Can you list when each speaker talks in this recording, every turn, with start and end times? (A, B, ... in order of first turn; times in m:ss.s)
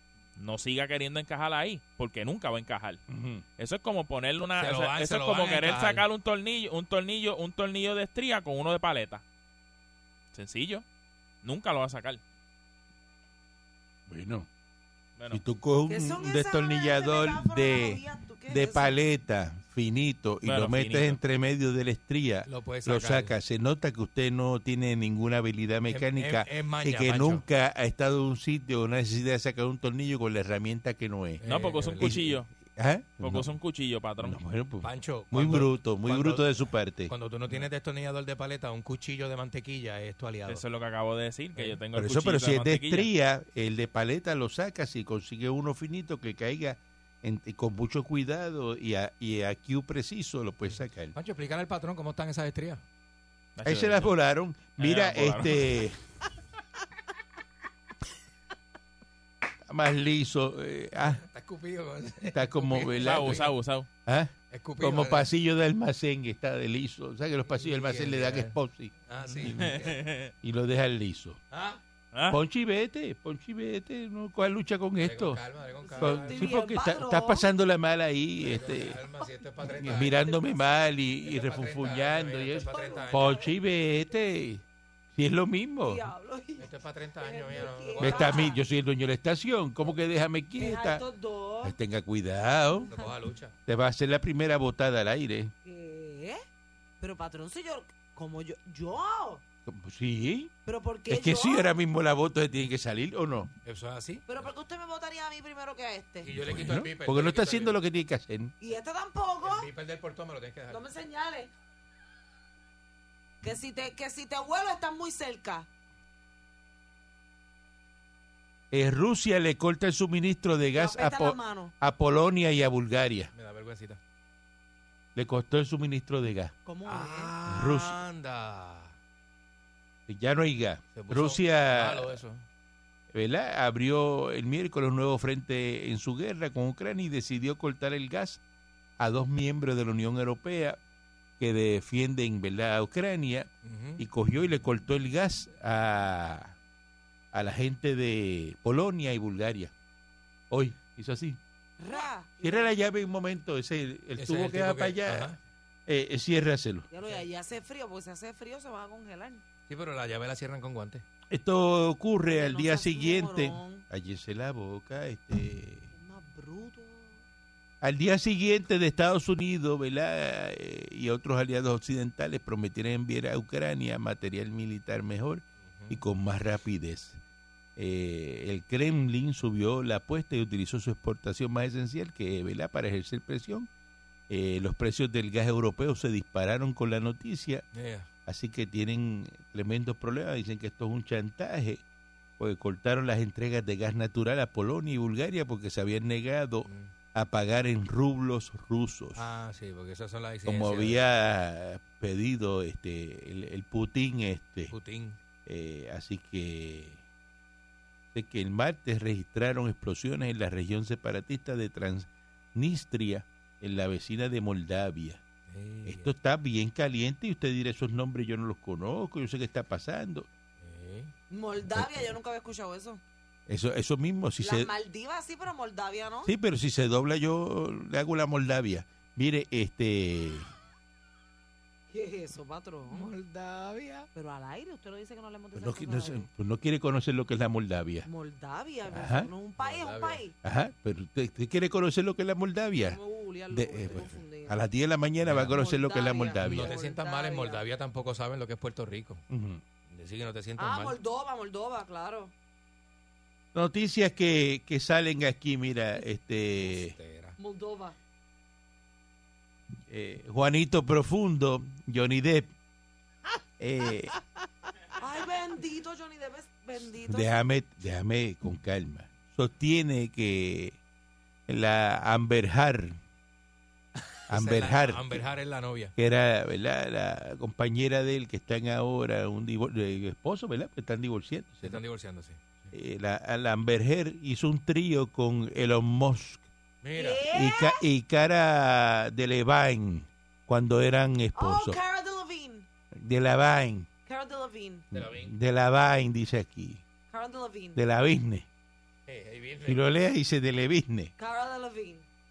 0:00.4-0:03.0 A
0:03.1-0:03.4 B
0:03.6-0:09.2 A
0:04.6-0:06.0 C
0:10.3-0:10.8 A
0:11.4-0:12.2 A
0:14.1-0:14.5 B
0:15.3-0:31.4 B
0:15.9-0:19.0 D
0:20.4-0:21.2 A
0:22.4-0:23.3 C
0:25.9-0:27.4 C
0:31.4-0:32.2 C
0:31.4-0:32.5 A
0:32.0-0:33.5 B
0:33.2-0:34.4 A
0:34.2-0:37.1 B
0:34.8-0:40.6 C
0:40.4-0:43.1 A
0:41.9-0:51.1 B
0:50.7-0:52.8 C
0:53.6-0:54.1 A
0:53.6-0:56.0 B
0:54.8-0:55.7 A
0:59.7-1:01.2 B
1:01.0-1:03.5 C
1:02.2-1:03.4 B
1:03.0-1:03.9 A
1:04.0-1:11.4 B
1:04.5-1:05.3 C
1:07.5-1:08.6 C
1:09.1-1:10.0 C
1:09.5-1:10.3 A
1:11.5-1:11.8 C
1:12.1-1:12.4 A
1:12.3-1:15.4 B
1:15.0-1:16.6 C
1:15.8-1:17.5 D
1:16.0-1:19.0 B
1:18.4-1:20.2 C
1:19.6-1:20.8 D
1:19.7-1:26.0 B
1:21.2-1:23.5 C
1:22.5-1:23.6 D
1:25.8-1:26.7 D
1:26.6-1:28.5 C
1:27.2-1:28.6 D
1:28.0-1:31.0 B
1:30.6-1:31.8 D
1:31.6-1:32.9 B
1:32.8-1:33.5 C
1:33.6-1:35.5 B
1:35.6-1:36.4 D
1:37.0-1:39.4 D
1:39.6-1:40.5 B
1:40.6-1:41.7 D
1:41.1-1:43.5 B
1:43.6-1:44.2 C
1:44.3-1:46.3 D
1:46.2-1:47.8 C
1:46.4-1:48.5 B
1:48.6-1:49.7 D
1:49.4-1:50.8 C
1:50.7-1:51.5 D
1:53.4-1:55.7 D
1:58.7-2:03.3 B
2:00.7-2:01.7 D
2:03.3-2:04.0 C
2:05.1-2:06.5 B
2:06.6-2:07.3 D
2:06.8-2:09.0 C
2:07.4-2:08.0 B
2:10.1-2:12.2 B
2:10.9-2:12.4 C
2:13.1-2:18.4 B
2:19.0-2:20.8 B
2:21.4-2:26.6 B
2:23.6-2:24.0 C
2:27.3-2:29.7 B
2:30.5-2:31.4 B
2:31.8-2:32.7 D
2:32.4-2:35.3 B
2:34.2-2:35.4 C
2:35.9-2:36.9 B
2:36.9-2:39.4 D
2:39.7-2:41.0 C
2:41.3-2:45.9 B
2:42.2-2:43.9 D
2:45.9-2:47.2 D
2:47.8-2:57.2 B
2:55.6-2:56.0 C
2:57.8-3:03.7 B
3:04.3-3:07.6 B
3:07.7-3:08.1 C
3:08.2-3:11.8 B
3:12.4-3:19.2 B
3:16.6-3:16.9 C
3:19.1-3:21.0 C
3:20.4-3:24.7 B
3:24.7-3:25.2 C
3:25.4-3:27.0 B
3:28.1-3:35.2 B
3:35.5-3:36.1 C
3:35.8-3:40.3 B
3:40.6-3:41.1 C
3:41.3-3:43.0 D
3:41.7-3:42.1 B
3:43.5-3:44.7 B
3:44.4-3:46.3 D
3:46.2-3:50.5 B
3:51.9-3:53.1 D
3:52.9-3:54.1 C
3:54.1-3:56.3 D
3:55.5-3:58.1 B
3:58.0-4:00.3 D
3:58.9-3:59.3 B
3:59.6-4:00.2 C
4:00.4-4:03.0 B
4:02.7-4:04.6 D
4:03.5-4:06.7 B
4:05.2-4:05.6 C
4:05.5-4:07.6 D
4:06.4-4:09.2 C
4:09.3-4:09.6 B
4:09.9-4:11.0 C
4:10.6-4:12.3 D
4:13.5-4:16.9 B
4:16.6-4:17.4 C
4:17.4-4:18.0 D
4:19.9-4:22.5 B
4:23.6-4:24.1 B
4:25.0-4:27.3 D
4:27.1-4:30.8 B
4:31.5-4:33.0 B
4:34.0-4:35.9 C
4:34.3-4:35.2 B
4:36.0-4:41.8 B
4:41.6-4:42.7 C
4:42.7-4:46.4 B
4:46.8-4:47.3 C
4:46.9-4:47.8 D
4:47.3-4:51.8 B
4:51.3-4:52.7 D
4:52.9-4:53.9 B
4:54.0-4:54.9 D
4:54.9-4:56.8 B
4:54.9-4:55.3 C
4:57.1-4:57.8 D
4:57.8-4:58.4 B
4:59.1-4:59.8 C
4:59.6-5:01.1 B
5:01.2-5:02.0 D